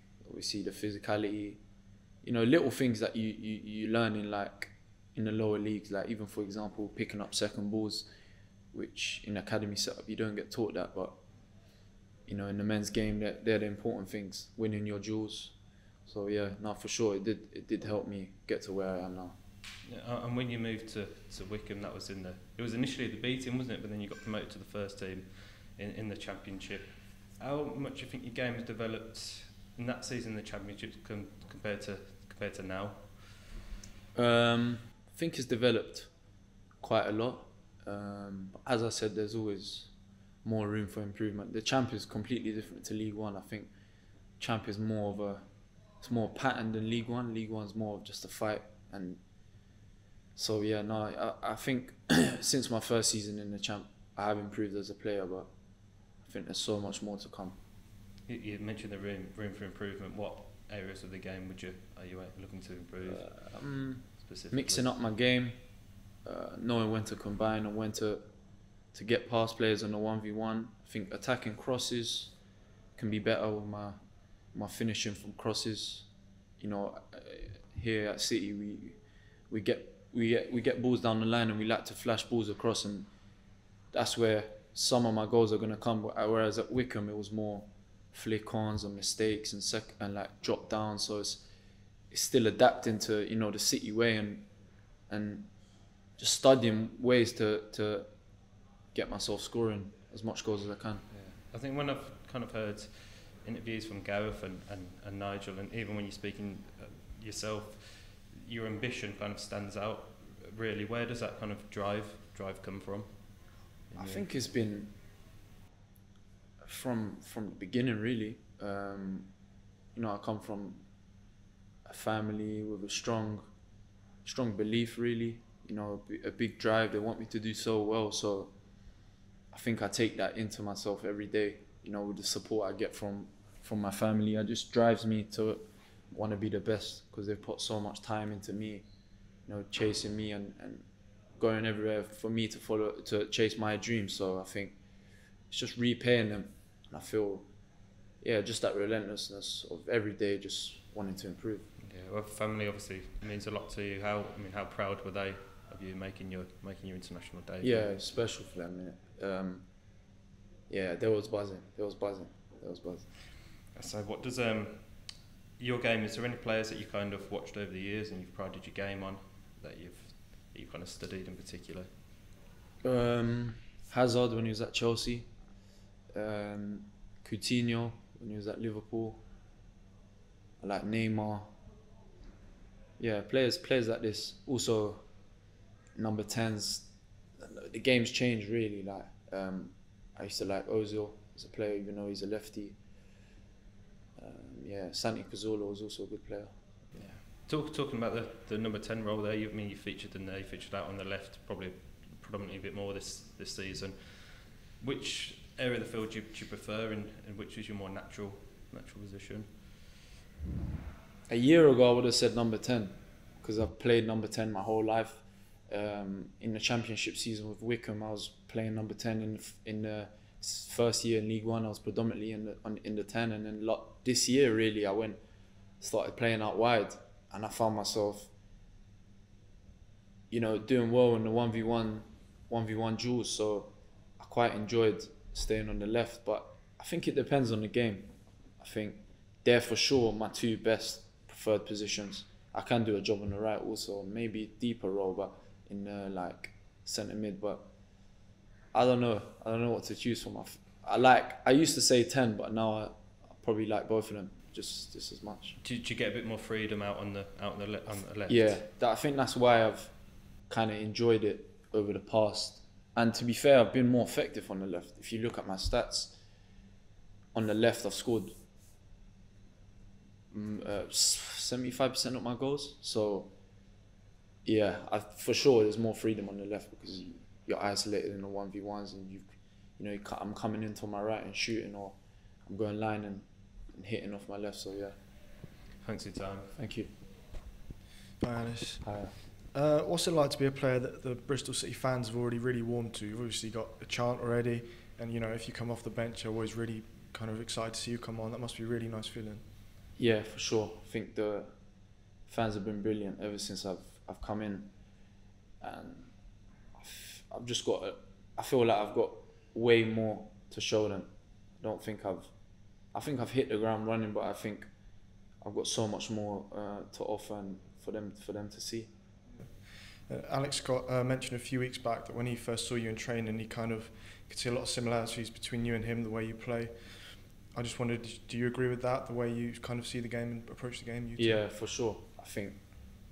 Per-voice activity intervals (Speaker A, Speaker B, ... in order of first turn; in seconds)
Speaker A: 0.2-1.6, 2.2-8.1, 8.7-11.2, 12.3-19.4, 34.1-36.1, 36.8-39.9, 40.4-43.7, 44.4-45.5, 46.0-49.2, 50.4-55.5, 56.2-57.6, 63.0-65.6, 66.2-68.2, 68.9-72.3, 73.0-74.0, 74.5-76.1, 76.6-79.0, 79.5-83.1, 83.9-91.4, 92.1-94.5, 95.1-95.5, 96.2-98.1, 98.9-101.1, 114.0-115.0, 116.6-119.3, 119.9-120.8, 121.8-123.5, 124.2-128.5, 129.5-138.8, 139.4-140.8, 141.4-144.8, 145.5-147.5, 148.2-151.7, 157.6-159.7, 160.7-163.2, 172.8-175.3, 176.1-179.2, 180.6-181.5, 183.0-185.1, 185.9-192.8, 194.2-197.2, 211.3-225.2, 225.8-228.3, 230.3-247.7, 248.7-255.6, 258.3-259.9, 260.5-266.1, 267.3-268.4, 270.3-273.3, 274.4-284.9, 286.5-286.9, 288.8-289.2, 299.9-301.5, 302.3-304.7, 305.6-306.1, 306.7-312.3, 312.9-314.7, 315.4-318.9, 331.1-332.6
Speaker B: 19.8-33.4, 58.3-64.8, 101.1-114.3, 151.8-157.9, 163.7-171.9, 197.3-209.9, 255.6-258.6, 285.8-286.5
Speaker C: 288.2-299.5, 319.4-331.4